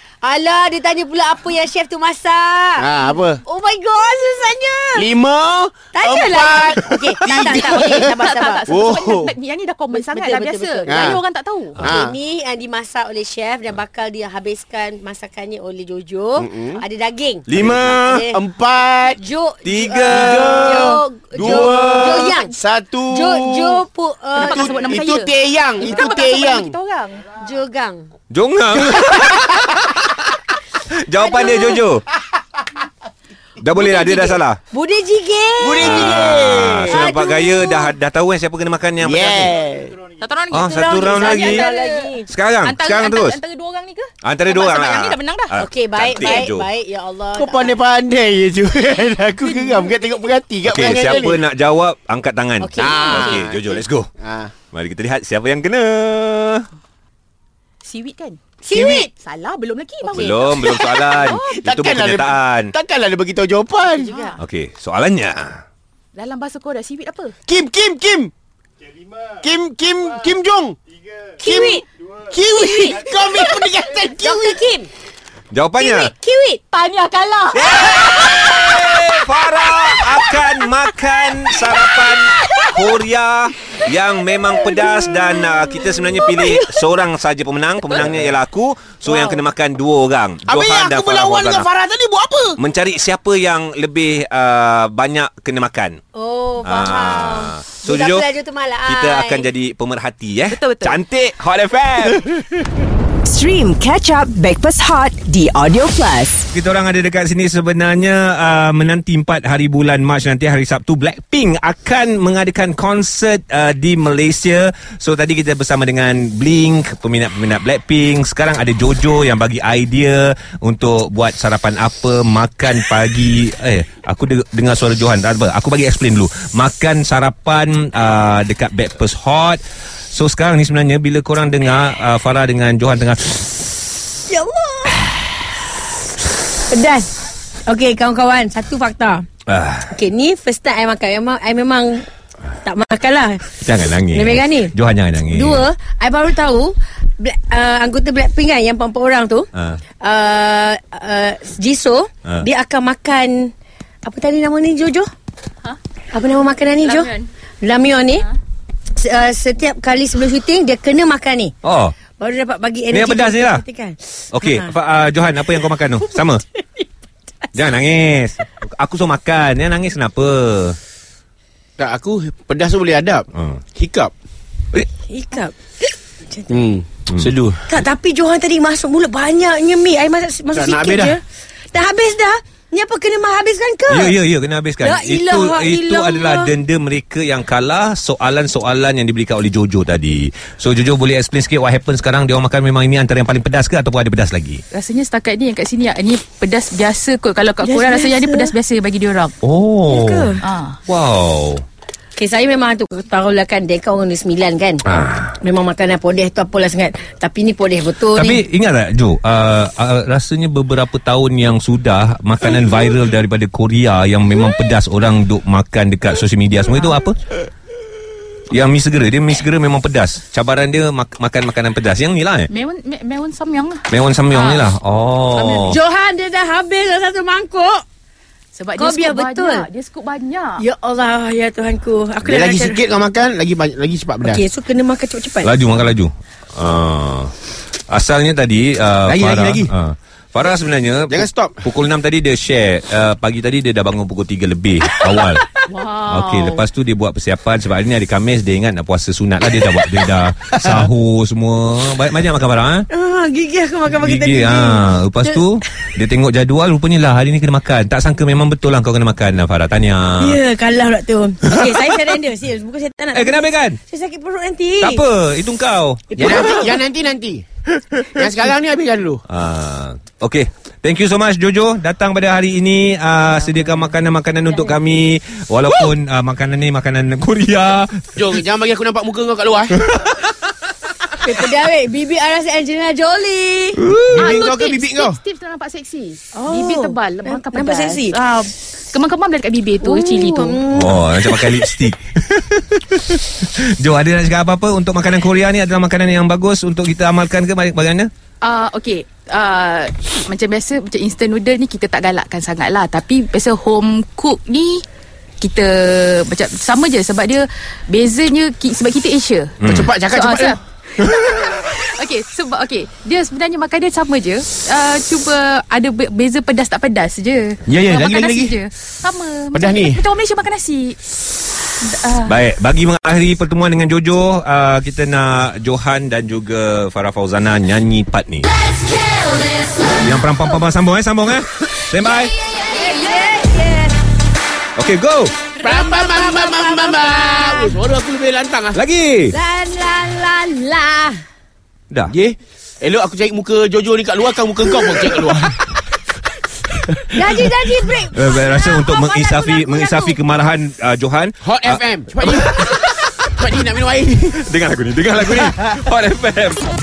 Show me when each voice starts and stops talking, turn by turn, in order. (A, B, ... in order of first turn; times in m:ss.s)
0:00.2-0:05.1 A
0:02.8-0:03.4 B
0:04.9-0:08.1 B
0:05.9-0:08.7 A
0:07.3-0:11.8 C
0:08.7-0:09.3 B
0:09.9-0:11.2 A
0:10.9-0:11.2 B
0:11.8-0:12.2 B
0:11.8-0:18.4 A
0:16.4-0:16.8 B
0:17.5-0:18.3 D
0:17.5-0:19.2 B
0:19.2-0:22.5 A
0:19.6-0:22.2 D
0:20.1-0:23.8 B
0:23.1-0:24.8 A
0:24.3-0:27.3 C
0:24.4-0:26.7 B
0:27.4-0:28.1 A
0:28.3-0:32.0 D
0:29.0-0:29.2 B
0:31.2-0:31.8 A
0:33.6-0:34.6 D
0:33.7-0:37.9 A
0:35.6-0:37.0 B
0:35.8-0:39.5 D
0:39.0-0:40.0 B
0:40.2-0:45.5 C
0:40.5-0:41.7 D
0:40.6-0:42.3 A
0:42.2-0:43.4 D
0:44.2-0:46.7 D
0:45.6-0:47.8 A
0:47.3-0:51.4 B
0:49.6-0:49.8 A
0:50.6-0:54.1 D
0:50.9-0:51.2 A
0:52.6-0:53.5 A
0:52.8-0:54.5 B
0:54.7-0:56.7 D
0:57.8-0:58.4 C
0:58.6-0:59.1 A
0:58.7-0:59.1 B
0:59.2-1:01.6 C
1:00.0-1:00.4 A
1:00.1-1:02.7 D
1:00.6-1:04.2 B
1:03.8-1:04.4 C
1:04.4-1:05.6 D
1:06.1-1:07.3 C
1:07.5-1:08.3 B
1:09.4-1:10.8 B
1:11.4-1:11.8 A
1:11.4-1:14.6 B
1:12.4-1:14.9 A
1:15.5-1:16.1 D
1:15.8-1:18.9 A
1:17.5-1:31.7 D
1:19.6-1:20.5 A
1:21.7-1:22.7 A
1:24.5-1:26.7 A
1:30.5-1:32.6 B
1:32.6-1:36.0 D
1:36.1-1:39.5 A
1:36.6-1:38.2 D
1:38.8-1:42.4 D
1:40.5-1:41.0 C
1:43.2-1:46.5 E
1:46.5-2:13.6 D
2:14.3-2:15.1 A
2:16.7-2:17.1 A
2:17.7-2:19.3 A
2:19.5-2:20.0 D
2:19.9-2:22.0 A
2:22.6-2:23.5 A
2:23.6-2:25.7 D
2:24.1-2:24.7 A
2:25.3-2:33.5 A
2:29.5-2:29.8 D
2:34.0-2:35.1 A
2:36.1-2:38.3 A
2:36.8-2:37.3 C
2:39.0-2:44.7 A
2:41.6-2:42.0 D
2:42.9-2:43.6 D
2:44.3-2:46.4 D
2:45.5-2:46.8 A
2:47.5-2:50.8 D
2:51.8-2:54.1 B
2:53.4-2:53.6 D
2:55.1-2:56.6 A
2:56.5-2:57.7 B
2:57.7-3:01.2 A
3:00.5-3:01.2 B
3:01.7-3:04.2 A
3:03.9-3:14.6 D
3:04.8-3:06.5 A
3:14.7-3:19.4 C
3:17.6-3:18.5 A
3:19.4-3:21.6 D
3:19.8-3:20.4 A
3:20.4-3:20.8 C
3:22.2-3:24.8 A
3:24.9-3:25.4 D
3:25.4-3:28.4 A
3:28.1-3:37.2 D
3:38.5-3:42.5 D
3:42.5-3:44.7 C
3:43.9-3:45.8 D
3:45.3-3:47.8 A
3:48.5-3:50.6 C
3:48.8-3:49.7 A
3:50.6-3:52.8 A
3:52.2-3:54.4 B
3:54.2-3:55.5 A
3:55.4-3:57.3 D
3:57.9-4:05.4 D
3:59.0-3:59.7 B
4:01.1-4:01.7 B
4:05.6-4:06.6 C
4:06.1-4:12.9 D
4:12.9-4:15.9 A
4:14.0-4:20.4 D
4:20.2-4:25.0 A
4:21.5-4:22.0 D
4:23.1-4:23.8 D
4:24.8-4:26.4 D
4:26.1-4:26.8 A
4:26.2-4:27.4 B
4:27.9-4:28.2 D
4:28.1-4:29.2 B
4:29.3-4:38.1 D
4:38.2-4:39.8 B
4:39.9-4:40.1 D
4:41.2-4:43.8 A
4:43.8-4:44.3 D
4:44.0-4:45.2 B
4:44.2-4:50.6 C
4:46.4-4:48.5 A
4:49.8-4:51.7 A
4:50.7-4:58.1 D
4:58.4-5:04.8 C
5:05.4-5:10.6 C
5:09.6-5:09.9 D
5:09.6-5:11.6 B
5:11.1-5:21.0 C
5:17.6-5:18.6 B
5:19.5-5:20.0 B
5:21.8-5:22.4 C
5:22.2-5:28.5 D
5:30.0-5:32.4 D
5:32.6-5:34.0 A
5:34.8-5:35.4 D
5:35.6-5:37.8 A
5:35.6-5:38.8 B
5:38.7-5:39.4 D
5:39.3-5:41.2 A
5:42.1-5:45.6 B
5:44.6-5:45.2 A
5:47.1-5:50.2 A
5:48.1-5:53.3 D
5:51.4-5:52.6 B
5:53.4-5:54.3 B
5:54.4-5:56.7 D